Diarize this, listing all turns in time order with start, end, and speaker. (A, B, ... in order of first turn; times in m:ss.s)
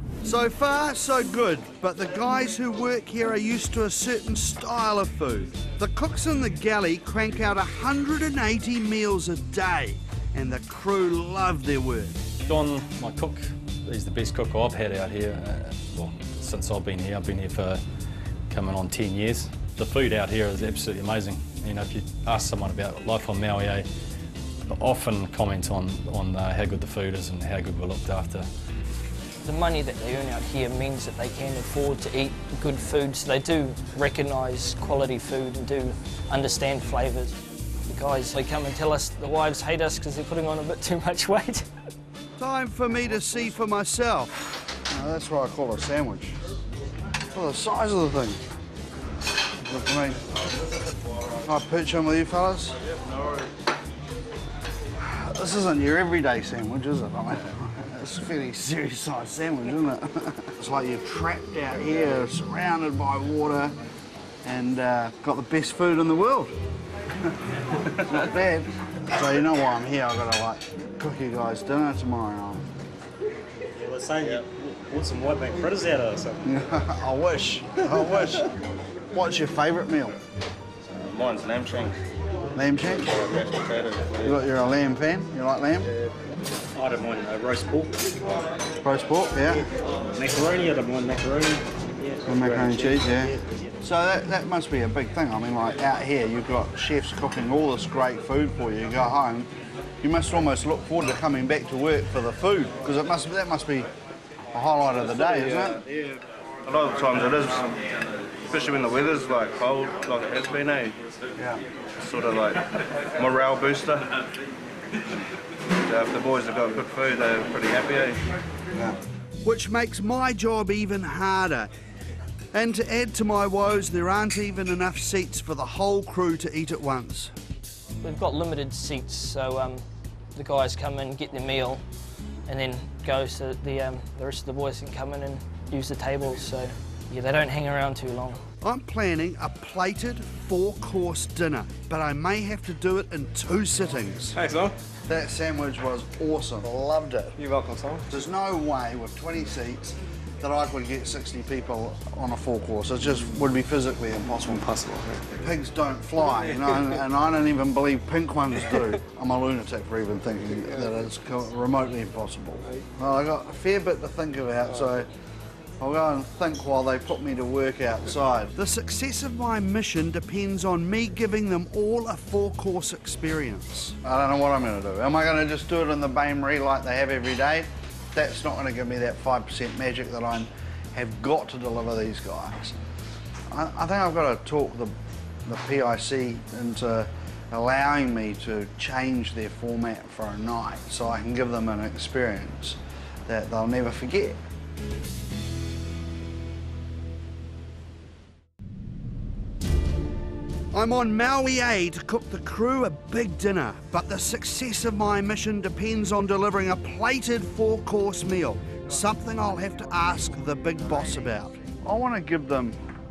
0:00.2-0:12.2 A
0:12.4-0:17.8 B
0:18.5-0:23.9 B
0:24.7-0:28.5 B
0:29.4-0:37.4 C
0:37.9-0:41.7 C
0:42.4-0:44.4 A
0:44.9-0:46.4 D
0:47.3-0:48.4 D
0:49.6-0:50.2 D
0:51.4-0:52.8 D
0:55.0-1:03.8 D
1:04.4-1:06.5 D
1:08.0-1:12.7 D
1:13.8-1:16.4 E
1:16.5-1:18.5 D
1:19.1-1:20.2 D
1:21.0-1:21.9 F
1:22.5-1:23.2 D
1:23.2-1:24.3 F
1:24.2-1:25.9 D
1:26.8-1:28.1 E
1:28.8-1:29.6 D
1:30.1-1:33.4 E
1:32.3-1:39.5 D
1:40.0-1:43.9 D
1:44.5-1:45.8 D
1:45.3-1:45.6 F
1:46.7-1:47.7 F
1:48.5-1:51.0 F
1:52.0-1:52.6 F
1:53.2-1:54.1 F
1:55.9-1:58.2 F
1:59.4-2:01.7 A
2:02.5-2:07.3 A
2:08.0-2:09.8 C
2:10.4-2:11.8 C
2:12.5-2:18.4 C
2:18.6-2:24.4 A
2:25.1-2:27.4 D
2:27.4-2:28.0 E
2:28.1-2:34.7 D
2:34.6-2:35.2 E
2:35.3-2:45.1 D
2:45.8-2:48.6 D
2:48.6-2:54.0 A
2:54.0-3:02.8 D
3:03.5-3:05.0 D
3:05.5-3:14.4 D
3:20.7-3:31.5 A
3:30.9-3:32.8 D